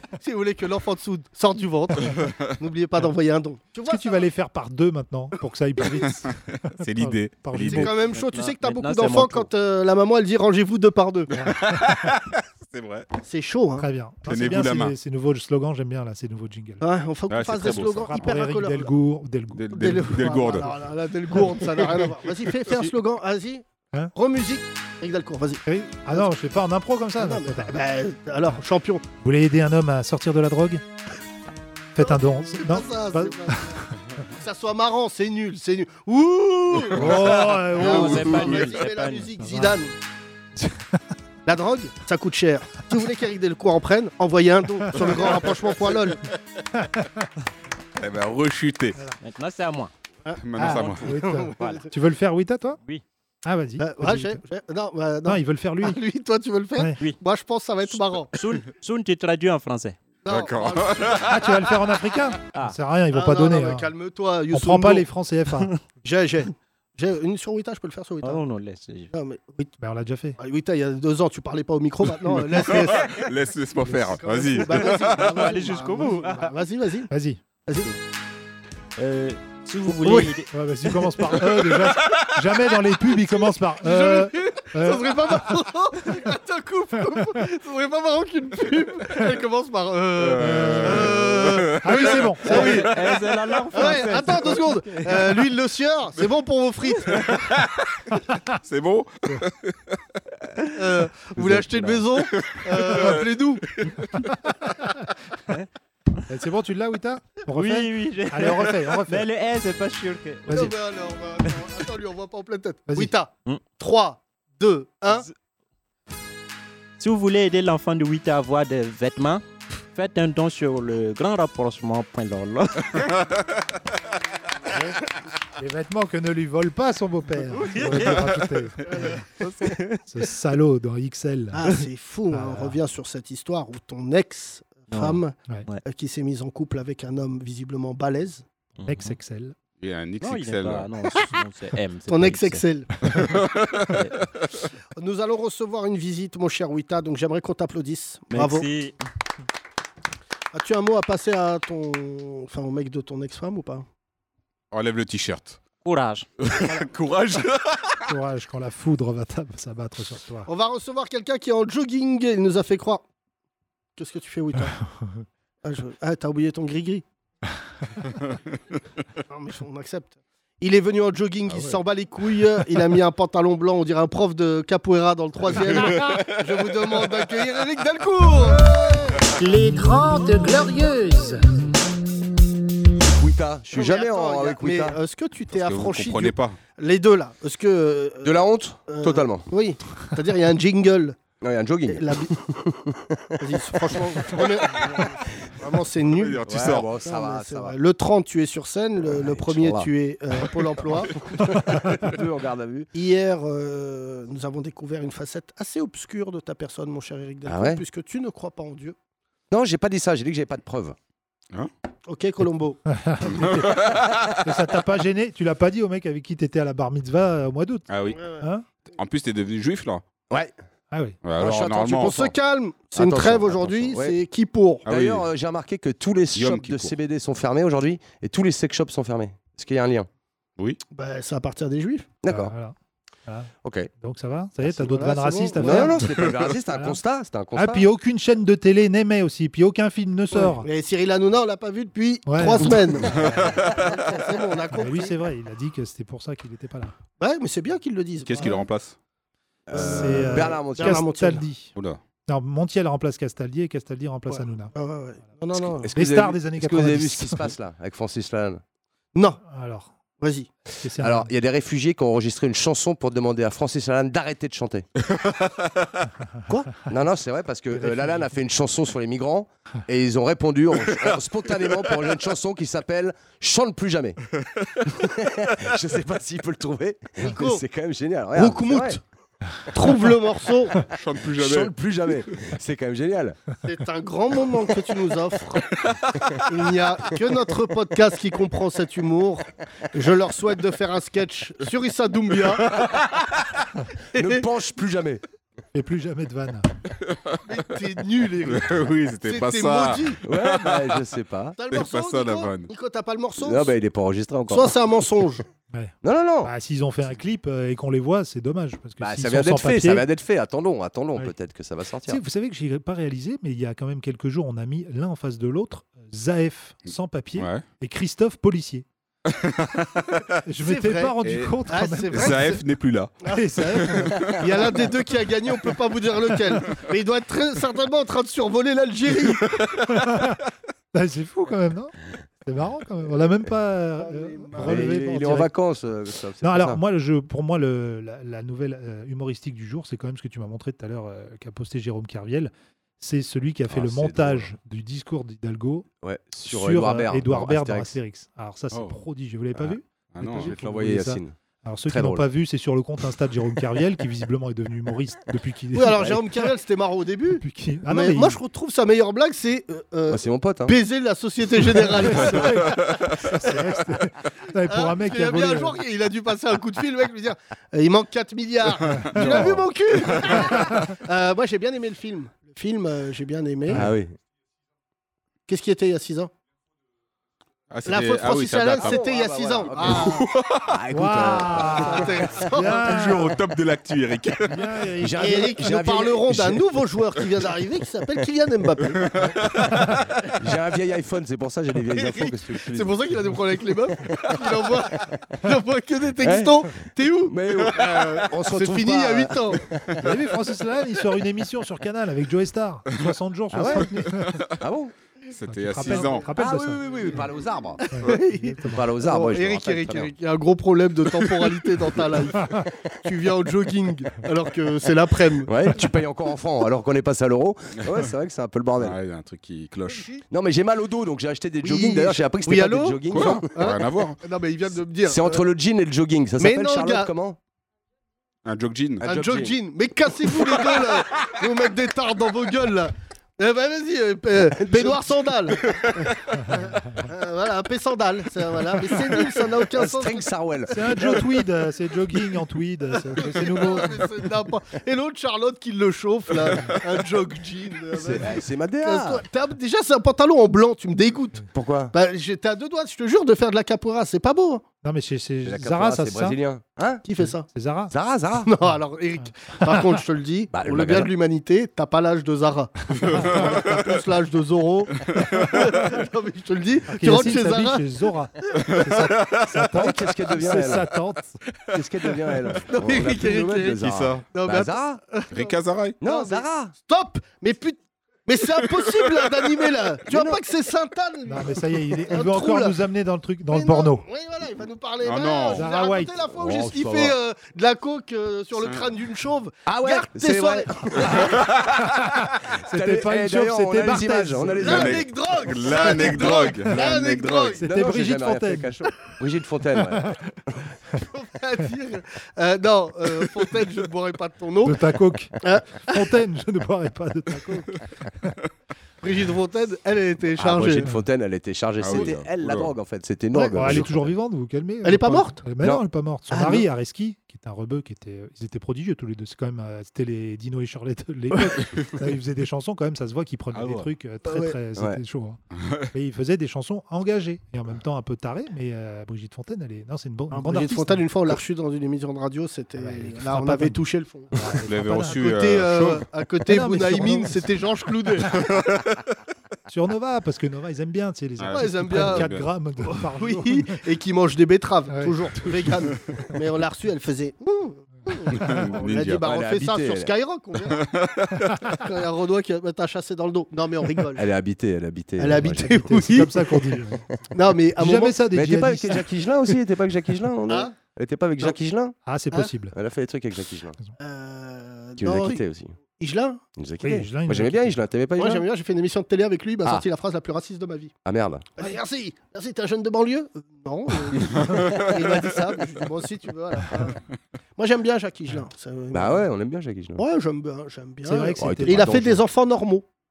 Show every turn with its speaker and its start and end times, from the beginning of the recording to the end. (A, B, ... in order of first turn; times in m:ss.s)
0:00.2-0:04.3 A
0:02.2-0:02.5 B
0:03.9-0:07.9 C
0:06.0-0:07.9 B
0:07.6-0:11.3 A
0:08.0-0:09.5 D
0:11.3-0:12.2 C
0:11.4-0:13.1 B
0:13.2-0:13.9 A
0:13.8-0:16.8 C
0:14.2-0:15.0 B
0:16.8-0:18.9 A
0:17.3-0:18.3 B
0:18.1-0:19.7 C
0:19.5-0:20.8 B
0:19.7-0:26.3 A
0:25.6-0:27.8 C
0:27.2-0:29.0 A
0:29.2-0:30.8 C
0:31.9-0:33.8 C
0:32.0-0:39.9 A
0:36.9-0:38.6 B
0:36.9-0:38.5 C
0:37.7-0:39.3 D
0:39.4-0:39.8 C
0:40.6-0:41.0 C
0:41.4-0:46.2 A
0:45.0-0:46.0 B
0:46.7-0:47.2 C
0:48.0-0:49.0 B
0:49.2-0:49.9 D
0:50.2-0:51.9 A
0:50.4-0:51.2 B
0:50.6-0:52.8 C
0:51.6-0:51.8 D
0:53.4-0:54.4 C
0:53.8-0:58.3 A
0:55.2-0:56.0 C
0:57.9-1:00.0 D
1:00.2-1:01.3 A
1:00.3-1:01.8 B
1:01.2-1:03.9 C
1:03.1-1:05.0 A
1:04.5-1:05.7 C
1:06.0-1:08.4 A
1:08.2-1:09.1 D
1:09.1-1:09.7 A
1:09.8-1:10.4 C
1:10.4-1:13.3 A
1:12.4-1:15.5 B
1:14.0-1:17.1 A
1:14.8-1:16.5 D
1:17.1-1:17.4 C
1:17.6-1:17.9 A
1:19.0-1:20.5 D
1:19.9-1:20.3 A
1:20.5-1:25.3 C
1:21.6-1:22.4 B
1:23.8-1:32.9 A
1:30.2-1:33.6 B
1:30.4-1:31.3 C
1:31.8-1:32.8 C
1:32.4-1:35.4 D
1:33.7-1:37.4 A
1:37.1-1:40.0 B
1:40.8-1:43.6 A
1:42.2-1:44.3 B
1:45.5-1:46.2 D
1:46.3-1:49.3 C
1:47.5-1:50.7 D
1:50.5-1:50.7 C
1:50.5-1:55.2 A
1:52.9-1:53.1 C
1:57.0-1:59.4 D
1:59.9-2:03.0 D
2:03.0-2:03.4 B
2:05.6-2:09.2 C
2:07.6-2:08.3 D
2:09.4-2:10.0 D
2:10.0-2:11.7 C
2:11.5-2:18.4 A
2:12.3-2:12.8 C
2:14.9-2:15.8 D
2:18.8-2:19.1 D
2:18.8-2:19.6 C
2:19.8-2:20.9 B
2:20.2-2:22.6 D
2:22.1-2:22.9 A
2:23.1-2:24.0 B
2:23.9-2:24.2 D
2:25.0-2:28.7 A
2:28.3-2:28.9 D
2:30.5-2:33.8 A
2:34.7-2:35.6 B
2:35.8-2:36.3 D
2:36.4-2:38.1 B
2:38.1-2:40.5 C
2:40.4-2:43.0 A
2:44.0-2:44.8 A
2:45.0-2:45.2 C
2:45.6-2:47.0 A
2:49.3-2:59.2 A
2:51.5-2:51.8 B
2:55.5-2:57.2 B
2:59.4-3:01.4 E
3:03.2-3:05.0 F
3:03.7-3:11.2 A
3:05.5-3:06.6 B
3:08.2-3:09.5 F
3:11.4-3:14.0 F
3:11.9-3:12.3 A
3:13.4-3:21.9 A
3:16.1-3:17.0 B
3:16.4-3:17.8 F
3:19.0-3:19.9 F
3:21.3-3:22.9 F
3:22.9-3:29.0 A
3:27.4-3:27.8 F
3:29.5-3:31.0 F
3:32.1-3:32.8 A
3:32.9-3:37.9 C
3:33.3-3:34.4 B
3:37.9-3:38.2 B
3:38.1-3:38.5 A
3:38.4-3:38.6 C
3:38.9-3:40.0 B
3:40.9-3:41.2 C
3:41.2-3:42.2 B
3:41.4-3:42.3 F
3:41.8-3:44.9 A
3:42.9-3:44.2 F
3:44.8-3:45.3 B
3:44.9-3:50.1 F
3:46.3-3:47.0 B
3:50.9-3:52.1 A
3:52.2-3:52.5 F
3:52.2-3:52.7 C
3:53.2-3:57.0 C
3:53.6-3:53.9 F
3:54.6-3:56.2 A
3:55.6-3:57.9 F
3:56.2-3:56.4 B
3:57.5-4:00.7 C
4:00.3-4:05.1 A
4:02.2-4:03.8 C
4:03.2-4:03.9 B
4:04.7-4:06.9 C
4:07.2-4:08.7 A
4:08.2-4:09.0 B
4:09.7-4:11.1 F
4:09.7-4:11.4 A
4:09.7-4:11.7 C
4:11.7-4:12.0 B
4:12.3-4:14.7 C
4:14.3-4:15.9 A
4:15.5-4:18.6 F
4:15.9-4:17.5 C
4:19.1-4:19.4 A
4:19.4-4:19.9 C
4:20.2-4:20.5 A
4:20.8-4:21.3 C
4:21.0-4:24.9 F
4:25.1-4:25.8 B
4:26.8-4:34.2 F
4:27.7-4:28.3 C
4:30.8-4:31.9 B
4:34.6-4:35.1 B
4:35.0-4:39.0 F
4:37.2-4:37.6 A
4:38.3-4:39.0 A
4:39.7-4:40.8 A
4:40.8-4:42.5 B
4:41.3-4:43.4 F
4:43.6-4:45.6 A
4:45.8-4:46.2 B
4:46.4-4:52.9 A
4:52.7-4:53.3 B
4:54.1-4:54.4 A
4:54.2-4:55.2 F
4:55.7-4:56.7 C
4:57.1-4:57.4 B
4:57.4-5:00.2 A
4:58.4-5:01.1 B
5:00.2-5:01.6 F
5:01.6-5:03.7 A
5:01.7-5:02.7 B
5:03.4-5:04.8 F
5:04.5-5:05.4 A
5:05.7-5:10.1 C
5:06.0-5:06.5 F
5:09.0-5:12.2 F
5:12.0-5:18.8 C
5:17.4-5:17.6 B
5:19.3-5:20.4 B
5:20.4-5:22.3 C
5:20.6-5:22.6 A
5:21.2-5:23.1 B
5:23.2-5:29.6 A
5:23.3-5:24.3 C
5:23.7-5:24.4 B
5:30.0-5:30.4 C
5:30.9-5:35.5 C
5:34.0-5:35.0 A
5:34.6-5:36.8 F
5:36.4-5:45.9 C
5:43.7-5:44.5 F
5:46.0-5:47.9 F
5:46.4-5:56.5 C
5:48.7-5:49.0 B
5:50.1-5:50.6 B
5:50.3-5:51.4 F
5:51.9-5:52.3 F
5:55.7-6:03.5 A
5:57.4-5:58.4 C
6:00.1-6:00.8 F
6:01.9-6:05.8 C
6:04.6-6:13.9 A
6:08.9-6:09.6 C
6:09.2-6:09.6 F
6:10.4-6:10.8 C
6:13.7-6:14.1 F
6:15.5-6:16.3 A
6:17.7-6:19.0 B
6:17.8-6:20.2 A
6:18.7-6:20.2 F
6:19.8-6:20.8 B
6:20.7-6:22.1 F
6:20.9-6:23.4 C
6:21.5-6:23.1 A
6:22.8-6:24.6 B
6:24.5-6:25.5 C
6:25.0-6:26.8 F
6:25.1-6:29.1 A
6:29.0-6:29.9 B
6:30.4-6:33.0 F
6:31.9-6:39.7 A
6:36.2-6:36.6 F
6:37.3-6:40.0 F
6:37.7-6:38.3 B
6:40.0-6:44.5 C
6:43.5-6:43.9 F
6:44.0-6:44.5 B
6:44.6-6:44.9 F
6:45.3-6:46.3 B
6:45.4-6:47.1 C
6:46.3-6:47.8 F
6:47.8-6:55.7 A
6:47.9-6:48.8 C
6:48.6-6:50.1 F
6:55.5-6:59.0 F
6:58.8-7:00.1 B
6:59.9-7:00.2 A
7:00.3-7:03.5 F
7:01.6-7:05.4 A
7:03.1-7:04.2 B
7:05.0-7:07.4 F
7:06.4-7:07.1 A
7:08.4-7:09.1 B
7:09.0-7:09.6 F
7:09.0-7:20.3 A
7:14.6-7:15.1 F
7:19.7-7:21.2 F
7:20.7-7:24.1 C
7:20.8-7:21.2 A
7:23.0-7:34.6 A
7:27.9-7:29.2 F
7:31.5-7:31.9 F
7:34.8-7:36.4 C
7:35.4-7:37.0 F
7:37.0-7:37.5 A
7:37.2-7:37.9 C
7:37.9-7:38.5 F
7:38.4-7:47.9 A
7:40.5-7:41.1 F
7:43.0-7:43.9 B
7:45.1-7:45.6 B
7:46.9-7:51.4 C
7:48.7-7:49.7 B
7:49.7-7:50.9 F
7:51.7-7:55.0 F
7:52.7-8:02.8 A
7:53.8-7:54.3 B
7:55.3-7:56.0 B
7:56.0-7:56.7 F
8:00.1-8:00.4 F
8:01.2-8:04.0 C
8:03.5-8:11.4 A
8:05.0-8:05.7 B
8:05.5-8:06.2 C
8:06.3-8:07.2 F
8:09.6-8:11.3 F
8:11.3-8:11.9 B
8:11.8-8:14.8 C
8:12.6-8:15.0 F
8:14.5-8:17.7 A
8:14.6-8:17.1 B
8:16.7-8:20.1 F
8:17.6-8:18.8 C
8:19.8-8:20.2 C
8:21.0-8:24.8 A
8:24.6-8:27.7 C
8:25.4-8:26.1 A
8:29.0-8:30.9 A
8:30.4-8:34.1 F
8:31.8-8:32.7 B
8:33.3-8:33.9 A
8:33.5-8:45.4 C
8:34.8-8:35.5 A
8:36.3-8:36.6 A
8:41.6-8:41.9 B
8:43.5-8:43.9 B
8:44.2-8:44.6 A
8:44.8-8:45.0 F
8:45.5-8:45.9 B
8:45.9-8:51.3 C
8:50.3-8:58.5 A
8:52.8-8:53.8 C
8:54.3-8:55.3 C
8:54.6-8:56.0 B
8:56.4-8:57.5 C
8:58.3-8:58.9 B
8:59.7-9:03.8 C
9:01.4-9:02.5 B
9:01.5-9:10.8 A
9:04.9-9:05.7 C
9:08.3-9:09.2 B
9:09.2-9:10.1 F
9:10.6-9:11.7 B
9:11.7-9:14.3 A
9:14.2-9:16.1 F
9:15.2-9:16.7 A
9:15.6-9:17.1 C
9:17.3-9:18.2 A
9:17.8-9:19.1 C
9:18.3-9:22.0 F
9:20.5-9:20.8 A
9:22.0-9:22.8 C
9:22.7-9:23.8 F
9:24.0-9:26.4 A
9:25.0-9:25.8 F
9:26.6-9:28.4 F
9:26.8-9:27.8 C
9:28.2-9:30.9 A
9:31.0-9:31.5 F
9:31.6-9:37.0 A
9:34.3-9:34.8 B
9:37.6-9:39.3 A
9:38.9-9:40.0 F
9:40.0-9:42.8 A
9:41.0-9:42.2 C
9:41.4-9:42.2 F